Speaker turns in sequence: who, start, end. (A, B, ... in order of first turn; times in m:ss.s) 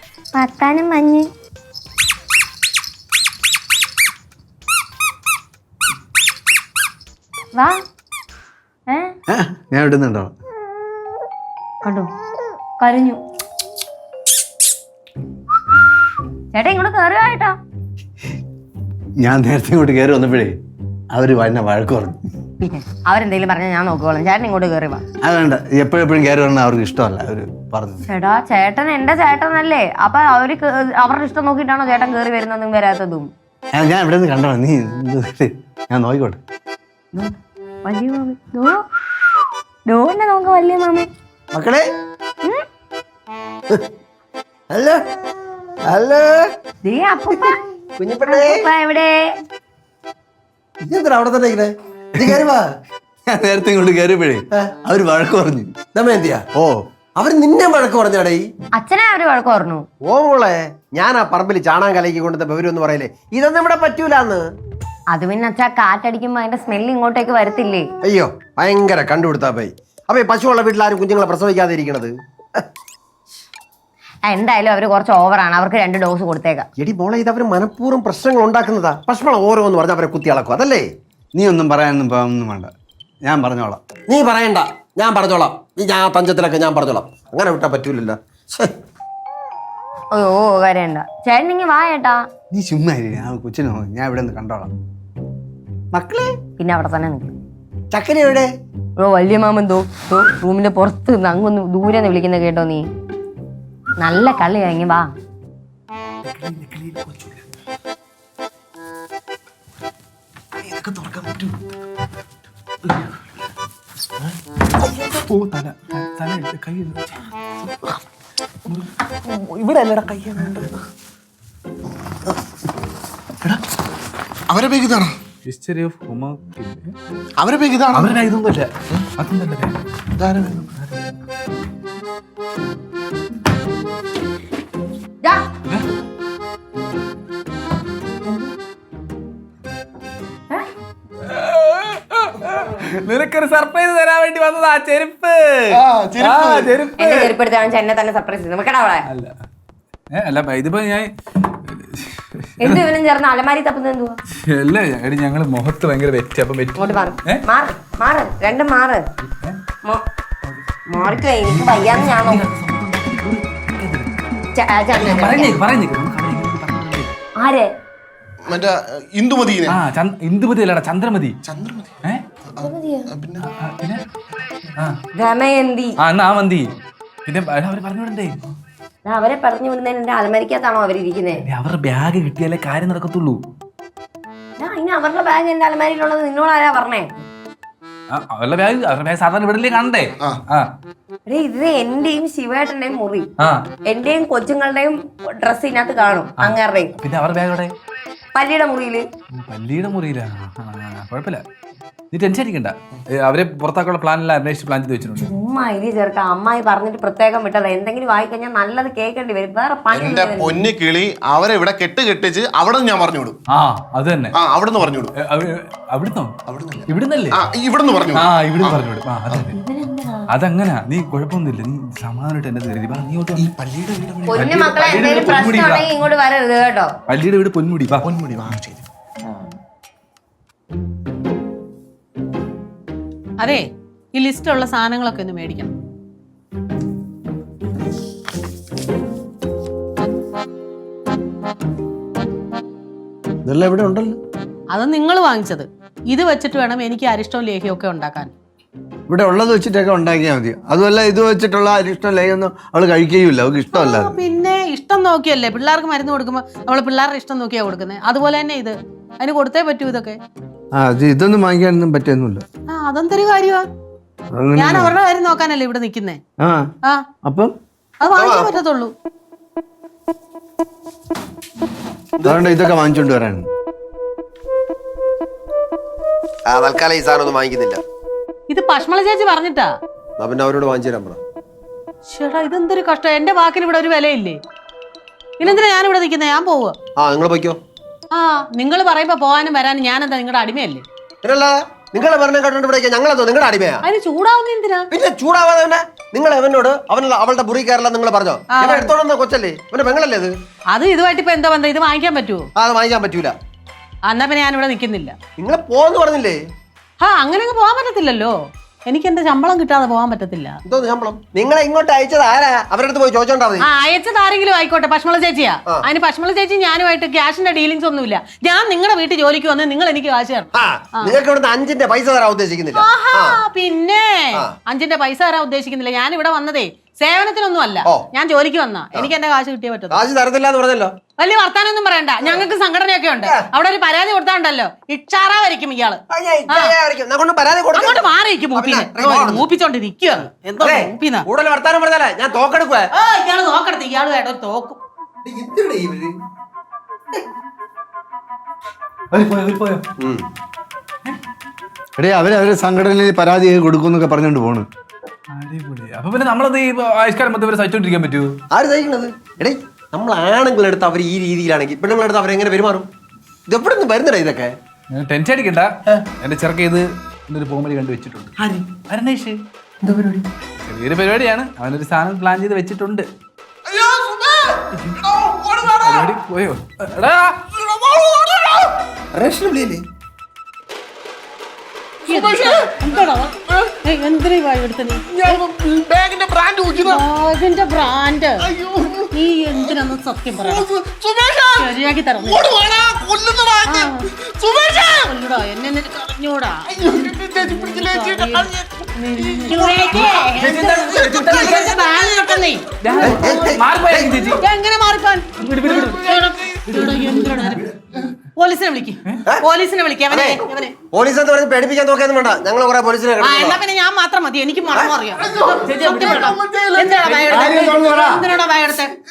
0:00.3-0:01.3 A
0:07.5-0:07.8 A
0:09.3-0:10.3 B
0:11.8-0:12.1 A
0:12.8-0:13.2 A
0:16.5-0:17.6 A
0:19.2-0:20.6 B
0:21.1-0:22.2 B
0:22.6-0:25.0 A
0:25.2-0:28.0 B
0:28.1-0:33.3 A
0:33.7-0:36.4 B
0:37.8-0:38.8 A
0:39.9-0:41.1 A
0:41.5-0:41.8 C
0:44.7-0:45.0 C
0:45.9-0:46.4 C
0:46.8-0:47.6 A
0:48.0-0:48.6 C
0:48.2-0:49.2 A
0:50.8-0:52.6 C
0:53.3-0:55.8 B
0:56.0-0:56.4 C
0:57.2-0:58.4 C
0:58.8-0:59.9 A
1:00.0-1:04.4 C
1:05.1-1:07.9 A
1:08.0-1:12.6 C
1:14.3-1:16.7 A
1:16.8-1:20.8 C
1:21.3-1:22.7 B
1:23.2-1:23.8 B
1:24.1-1:28.7 C
1:30.1-1:32.2 A
1:32.5-1:34.7 B
1:35.9-1:36.3 B
1:36.6-1:37.3 A
1:37.9-1:38.5 C
1:39.0-1:42.8 A
1:44.0-1:45.1 A
1:46.3-1:47.4 D
1:50.6-1:51.6 D
1:54.8-1:57.2 D
1:59.3-2:00.5 C
2:04.5-2:05.1 E
2:05.4-2:06.9 D
2:07.4-2:08.2 E
2:07.9-2:09.7 D
2:10.2-2:10.7 E
2:21.2-2:27.3 D
2:25.7-2:26.8 E
2:27.0-2:29.1 A
2:29.1-2:29.3 D
2:30.1-2:31.1 D
2:31.6-2:32.8 D
2:32.6-2:34.2 A
2:34.5-2:37.4 D
2:36.8-2:39.0 A
2:39.2-2:39.6 D
2:40.5-2:44.2 D
2:40.9-2:42.4 A
2:44.5-2:45.6 A
2:44.9-2:47.1 D
2:47.4-2:47.7 A
2:48.5-2:49.8 E
2:49.7-2:51.4 D
2:51.5-2:52.0 E
2:52.5-2:53.5 E
2:52.6-2:53.1 A
2:53.6-2:54.0 D
2:55.2-2:56.0 A
2:56.0-2:56.7 D
2:57.3-2:58.4 D
2:59.0-3:01.4 A
3:01.5-3:03.4 D
3:04.6-3:07.1 A
3:08.1-3:10.7 D
3:11.3-3:13.3 A
3:13.9-3:16.9 A
3:16.4-3:17.7 D
3:18.3-3:19.0 A
3:19.4-3:21.4 D
3:22.1-3:25.3 D
3:25.2-3:30.6 A
3:29.9-3:33.3 E
3:33.5-3:34.4 D
3:34.3-3:35.1 E
3:35.2-3:36.3 D
3:36.5-3:38.8 E
3:36.9-3:37.4 D
3:38.1-3:39.6 D
3:39.4-3:40.3 A
3:40.3-3:43.5 D
3:43.4-3:44.5 E
3:44.3-3:46.9 A
3:44.3-3:45.9 D
3:47.1-3:48.1 D
3:48.0-3:48.8 E
3:53.4-3:55.7 F
4:03.5-4:04.2 B
4:04.7-4:08.3 F
4:09.1-4:14.2 B
4:13.7-4:20.2 F
4:20.8-4:22.4 B
4:22.7-4:23.7 F
4:24.3-4:25.0 B
4:24.6-4:26.2 F
4:26.4-4:26.7 B
4:27.2-4:27.5 B
4:28.0-4:28.9 F
4:28.1-4:28.5 C
4:32.2-4:33.5 B
4:36.5-4:37.8 C
4:38.5-4:39.7 F
4:40.2-4:41.2 C
4:42.1-4:44.4 F
4:45.4-4:46.8 F
4:47.0-4:47.6 C
4:48.1-4:50.8 F
4:51.2-4:53.8 C
4:53.8-4:54.9 F
4:54.9-5:00.3 C
4:58.5-4:58.9 F
5:00.7-5:02.5 F
5:02.6-5:03.4 C
5:04.1-5:05.2 F
5:05.4-5:06.4 C
5:07.0-5:08.4 F
5:08.9-5:10.6 F
5:10.7-5:13.6 C
5:13.6-5:21.2 F
5:20.6-5:23.4 C
5:22.8-5:30.0 F
5:29.9-5:30.9 C
5:31.2-5:36.8 F
5:36.1-5:39.4 C
5:37.8-5:41.3 F
5:40.6-5:42.9 C
5:42.9-5:44.8 F
5:45.2-5:46.2 C
5:49.1-5:49.8 D
5:50.0-5:50.2 C
5:52.0-5:54.7 B
5:55.3-5:58.4 D
5:58.5-6:02.9 C
6:03.5-6:04.5 C
6:04.9-6:09.4 D
6:09.8-6:10.3 C
6:10.6-6:13.1 D
6:13.7-6:16.1 E
6:15.7-6:17.4 D
6:17.5-6:18.8 E
6:19.1-6:19.8 C
6:22.0-6:23.7 E
6:22.1-6:25.4 F
6:25.0-6:27.0 E
6:26.8-6:28.4 F
6:28.4-6:29.7 E
6:29.1-6:30.7 F
6:30.4-6:31.7 E
6:31.6-6:32.4 F
6:32.2-6:35.1 E
6:33.7-6:34.1 F
6:34.7-6:36.7 F
6:36.7-6:40.1 E
6:37.3-6:43.3 F
6:39.9-6:41.8 D
6:40.9-6:42.5 E
6:42.8-6:44.4 D
6:43.0-6:44.2 C
6:44.4-6:45.3 F
6:45.4-6:47.1 D
6:45.9-6:47.6 F
6:48.4-6:50.7 F
6:50.1-6:50.4 C
6:50.9-6:53.6 C
6:53.2-6:58.9 F
6:55.2-6:57.3 E
6:55.6-6:56.3 D
6:57.3-6:58.2 C